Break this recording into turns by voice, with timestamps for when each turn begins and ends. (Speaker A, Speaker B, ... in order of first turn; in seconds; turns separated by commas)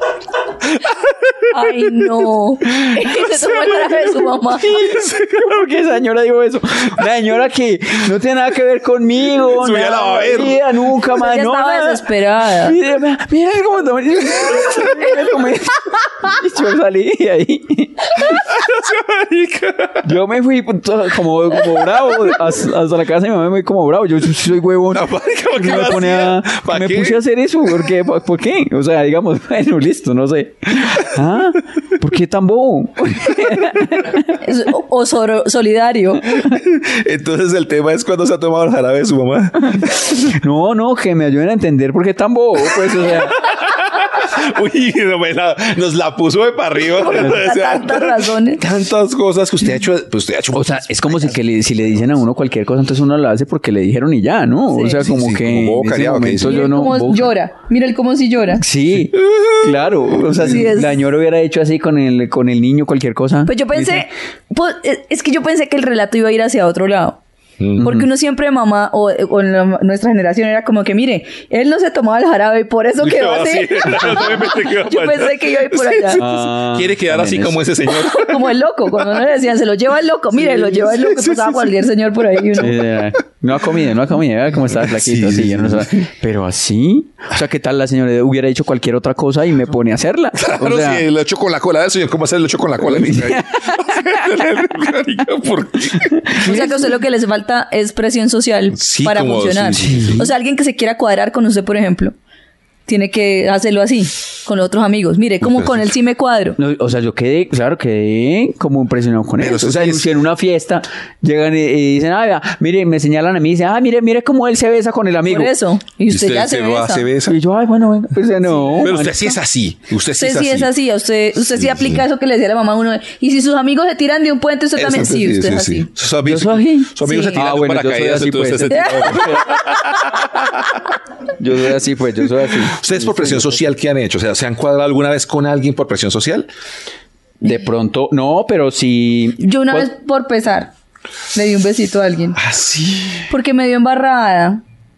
Speaker A: 0.6-1.7, Speaker B: 1.5-4.7, Speaker C: 4.6-18.4, Speaker A: 4.7-5.6, Speaker A: 9.4-10.6, Speaker B: 11.2-12.8, Speaker A: 18.2-20.1, Speaker C: 20.0-34.4, Speaker A: 24.9-27.2, Speaker B: 34.4-36.4, Speaker A: 36.4-40.2, Speaker C: 39.8-43.4, Speaker A: 42.7-51.4, Speaker B: 47.0-48.6, Speaker C: 50.5-57.3, Speaker B: 54.7-55.0, Speaker A: 55.0-56.7, Speaker B: 56.4-58.6, Speaker C: 58.6-64.1, Speaker A: 59.1-59.7, Speaker B: 60.4-61.0, Speaker B: 63.5-67.2, Speaker A: 67.6-67.9, Speaker C: 67.8-68.1, Speaker B: 67.8-76.2, Speaker A: 73.0-78.5, Speaker C: 76.2-77.6, Speaker B: 77.9-82.8, Speaker A: 80.4-81.7, Speaker C: 82.6-91.1, Speaker A: 84.7-86.0, Speaker A: 90.4-96.4, Speaker C: 92.8-94.6, Speaker C: 96.1-96.7, Speaker B: 96.4-102.1, Speaker A: 98.7-100.3, Speaker C: 99.8-100.2, Speaker B: 102.9-106.6, Speaker A: 105.4-105.9, Speaker C: 106.6-115.5, Speaker A: 109.4-110.1, Speaker B: 115.3-117.1, Speaker A: 116.1-117.4, Speaker C: 117.2-119.3, Speaker A: 118.8-120.7, Speaker B: 120.2-125.9, Speaker A: 121.5-122.0, Speaker A: 124.7-130.8, Speaker C: 126.2-129.6, Speaker B: 127.0-127.4, Speaker B: 128.7-129.3, Speaker C: 131.4-133.6, Speaker A: 132.6-136.5, Speaker C: 137.4-139.9, Speaker B: 139.4-140.7, Speaker B: 141.3-142.4, Speaker A: 142.3-143.3, Speaker B: 143.3-144.6